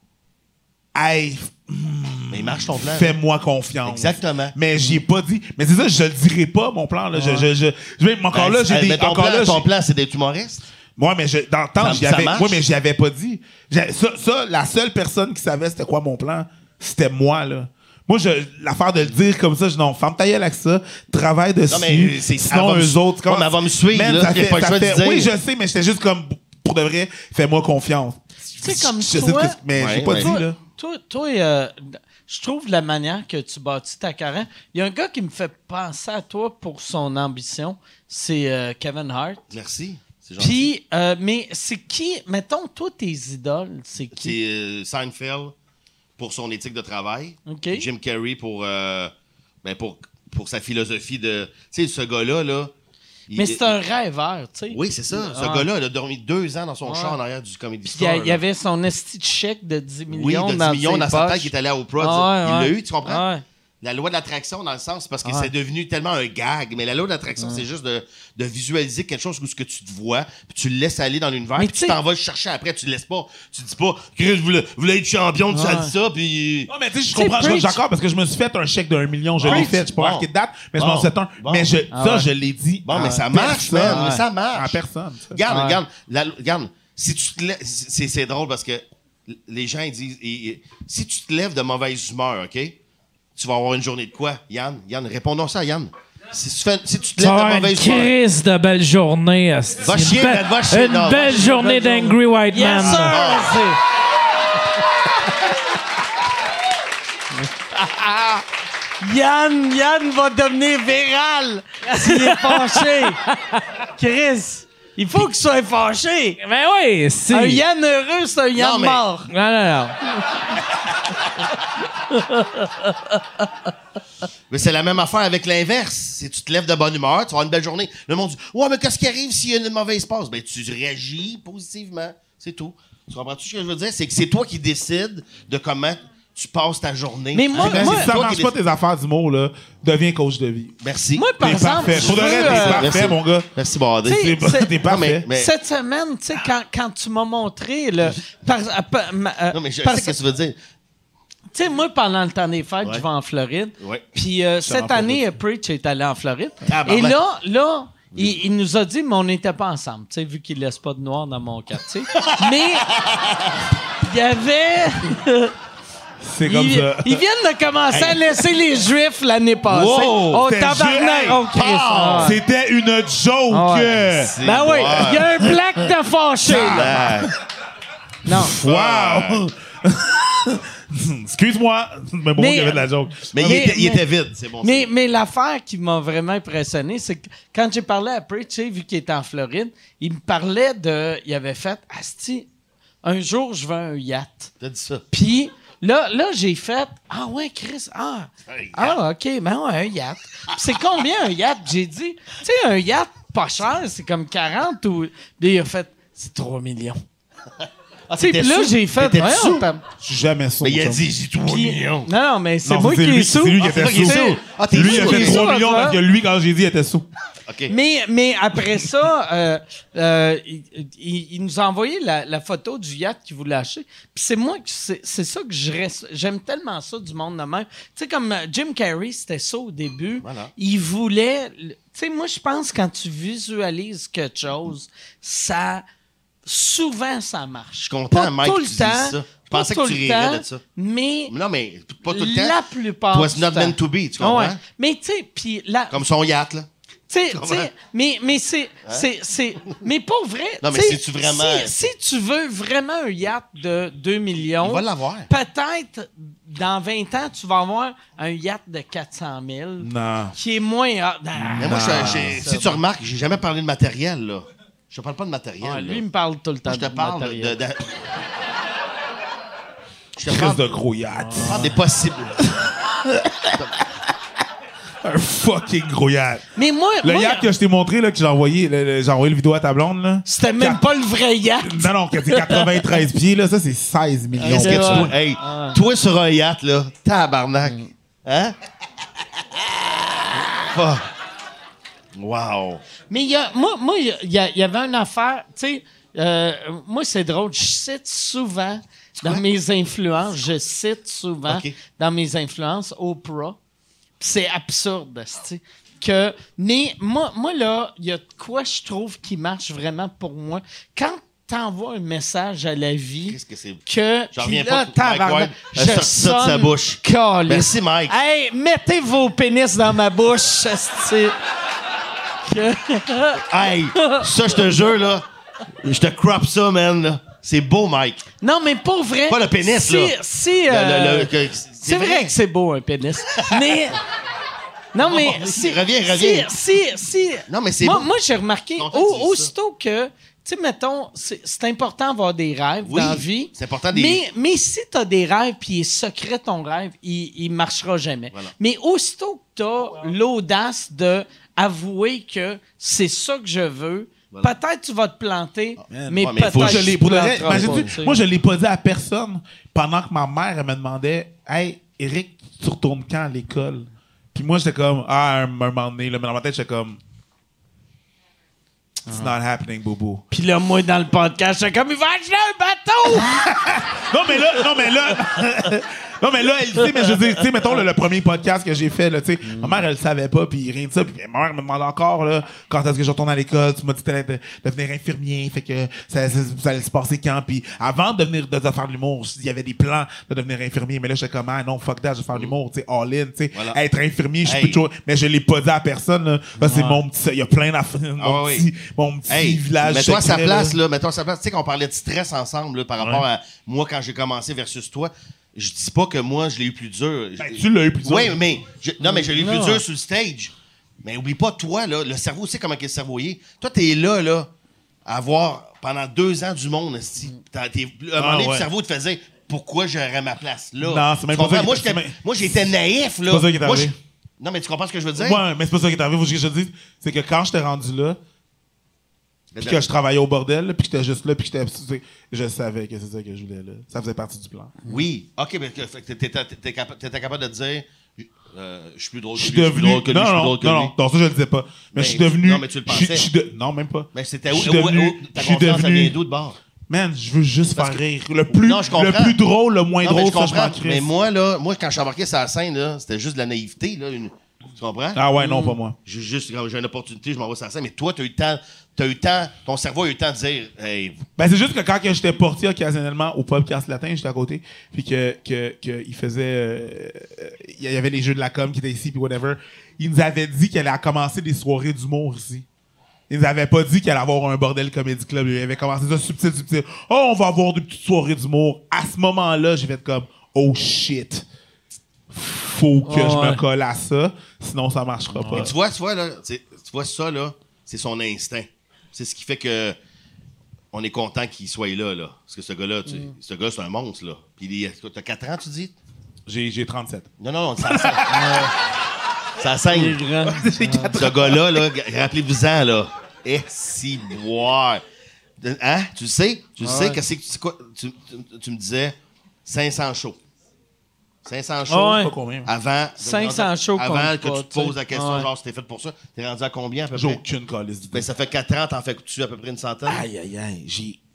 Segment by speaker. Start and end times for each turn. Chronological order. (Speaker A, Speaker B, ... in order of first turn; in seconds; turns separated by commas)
Speaker A: 0.9-9.7, Speaker B: 2.3-3.1, Speaker B: 3.9-4.5, Speaker C: 7.1-7.4, Speaker B: 8.3-10.7, Speaker A: 11.0-30.6, Speaker B: 11.8-12.6, Speaker B: 21.7-25.3, Speaker C: 28.6-39.4, Speaker B: 29.7-30.4, Speaker B: 39.5-40.7, Speaker C: 40.4-44.4, Speaker B: 44.1-45.5, Speaker B: 46.2-52.7, Speaker C: 47.5-47.9, Speaker B: 53.3-53.7, Speaker C: 53.3-55.7, Speaker B: 54.7-58.4, Speaker C: 56.9-57.2, Speaker C: 57.9-63.4, Speaker B: 60.1-63.2, Speaker B: 63.8-76.7, Speaker C: 65.2-65.5, Speaker C: 67.4-67.6, Speaker C: 71.6-72.0, Speaker C: 75.5-75.9, Speaker A: 76.7-85.4, Speaker C: 77.1-77.8, Speaker B: 79.4-80.2, Speaker C: 79.4-79.8, Speaker B: 80.8-81.7, Speaker C: 81.9-82.3, Speaker B: 82.8-84.8, Speaker C: 82.9-83.2, Speaker C: 83.7-84.2, Speaker B: 85.3-92.8, Speaker C: 85.5-85.8, Speaker B: 93.3-98.1, Speaker D: 97.2-103.2, Speaker B: 99.8-101.5, Speaker C: 101.3-103.8, Speaker B: 102.7-103.6, Speaker C: 107.4-108.4, Speaker C: 109.0-113.2, Speaker D: 112.0-113.6, Speaker C: 114.0-116.4, Speaker D: 116.4-117.6, Speaker C: 117.3-119.3, Speaker B: 118.5-119.0, Speaker D: 119.3-120.2, Speaker D: 122.1-122.9, Speaker B: 124.5-138.5, Speaker C: 137.3-138.1, Speaker A: 137.5-140.8, Speaker B: 140.8-144.3, Speaker C: 141.1-143.0, Speaker A: 141.4-143.5, Speaker C: 144.1-144.8, Speaker A: 144.1-145.3, Speaker B: 144.8-145.5, Speaker C: 145.3-150.2, Speaker B: 149.5-150.6, Speaker C: 151.5-162.9, Speaker B: 153.8-154.0, Speaker A: 154.6-155.3, Speaker B: 156.7-157.2, Speaker B: 162.2-163.4, Speaker C: 164.0-165.5, Speaker A: 166.2-167.2, Speaker C: 166.4-172.4, Speaker B: 167.9-168.3, Speaker B: 169.7-170.4, Speaker A: 170.3-171.5, Speaker B: 171.5-172.4, Speaker A: 172.2-174.3, Speaker C: 173.5-177.0, Speaker B: 174.1-175.3, Speaker A: 176.4-177.3, Speaker B: 176.5-177.3, Speaker C: 178.2-178.5, Speaker A: 178.2-183.6, Speaker B: 178.5-179.4, Speaker C: 182.4-184.0, Speaker B: 183.3-184.9, Speaker C: 184.6-192.5, Speaker C: 193.0-194.5, Speaker B: 194.6-195.0, Speaker C: 195.1-207.0, Speaker B: 198.5-199.0, Speaker B: 208.1-209.6, Speaker C: 208.2-209.8, Speaker A: 210.0-211.0, Speaker B: 210.6-212.1, Speaker C: 211.4-216.0, Speaker A: 212.6-217.1, Speaker B: 213.6-215.4, Speaker B: 217.5-217.7, Speaker C: 217.7-235.8, Speaker B: 230.2-230.5, Speaker C: 236.4-241.3, Speaker B: 237.9-240.6, Speaker B: 241.3-242.6, Speaker C: 242.1-246.0, Speaker B: 243.1-244.6, Speaker B: 245.9-246.7, Speaker C: 247.1-262.8, Speaker B: 247.3-247.7, Speaker B: 250.6-251.8, Speaker B: 254.6-255.3, Speaker A: 259.8-260.4, Speaker A: 261.4-262.4, Speaker B: 261.6-266.0, Speaker C: 265.6-267.6, Speaker B: 266.6-268.0, Speaker B: 270.1-270.7, Speaker A: 270.2-271.7, Speaker C: 271.1-271.8, Speaker B: 271.4-272.4, Speaker A: 273.0-274.1, Speaker A: 275.0-276.4, Speaker C: 276.5-277.5, Speaker A: 277.0-280.8, Speaker C: 280.2-282.9, Speaker A: 281.6-285.1, Speaker C: 284.4-285.8, Speaker B: 284.4-288.5, Speaker B: 290.6-291.1, Speaker B: 292.1-292.8, Speaker C: 293.1-303.6, Speaker B: 301.5-301.7, Speaker C: 304.2-321.3, Speaker B: 313.3-318.1, Speaker C: 322.4-324.2, Speaker B: 323.4-325.2, Speaker B: 325.8-328.2, Speaker C: 328.4-331.3, Speaker B: 329.3-330.1, Speaker B: 330.7-332.3, Speaker C: 331.8-334.0, Speaker B: 333.3-333.6, Speaker C: 334.9-358.2, Speaker B: 335.0-336.5, Speaker B: 337.5-338.1, Speaker B: 338.8-339.5, Speaker B: 342.8-344.2, Speaker A: 355.8-367.0, Speaker B: 356.2-357.9, Speaker C: 369.1-369.3, Speaker A: 369.1-370.2, Speaker C: 370.3-373.4, Speaker A: 373.1-400.8, Speaker C: 374.3-374.9, Speaker C: 379.4-379.8, Speaker B: 393.5-393.8, Speaker B: 394.4-394.8, Speaker C: 396.6-397.0, Speaker B: 398.2-398.6, Speaker B: 399.3-410.5, Speaker A: 403.0-403.2, Speaker A: 407.4-408.4, Speaker C: 409.0-409.8, Speaker B: 411.0-414.5, Speaker B: 415.0-425.4, Speaker A: 418.1-418.7, Speaker A: 420.8-422.7, Speaker A: 423.2-423.9, Speaker A: 425.1-428.2, Speaker B: 429.5-429.9, Speaker A: 429.6-434.8, Speaker B: 434.9-440.9, Speaker A: 439.3-446.1, Speaker B: 441.9-443.2, Speaker B: 444.1-446.6, Speaker A: 446.9-451.1, Speaker B: 448.5-449.4, Speaker B: 450.0-455.2, Speaker A: 455.1-455.9, Speaker C: 455.4-455.8, Speaker B: 456.0-461.2, Speaker A: 461.4-472.6, Speaker A: 473.3-481.4, Speaker A: 482.3-485.7, Speaker C: 483.0-483.6, Speaker C: 485.3-485.7, Speaker B: 485.5-490.0, Speaker B: 490.9-495.9, Speaker C: 493.1-493.3, Speaker A: 496.4-497.3, Speaker B: 497.4-498.3, Speaker A: 497.8-498.7, Speaker C: 498.3-498.7, Speaker B: 499.6-500.2, Speaker C: 499.9-501.2, Speaker A: 500.4-501.9, Speaker B: 501.1-505.0, Speaker B: 505.6-510.4, Speaker C: 506.8-507.2, Speaker B: 511.4-517.4, Speaker C: 511.9-512.3, Speaker A: 512.0-512.7, Speaker C: 513.2-515.5, Speaker A: 517.1-518.3, Speaker B: 518.1-520.2, Speaker A: 520.0-521.2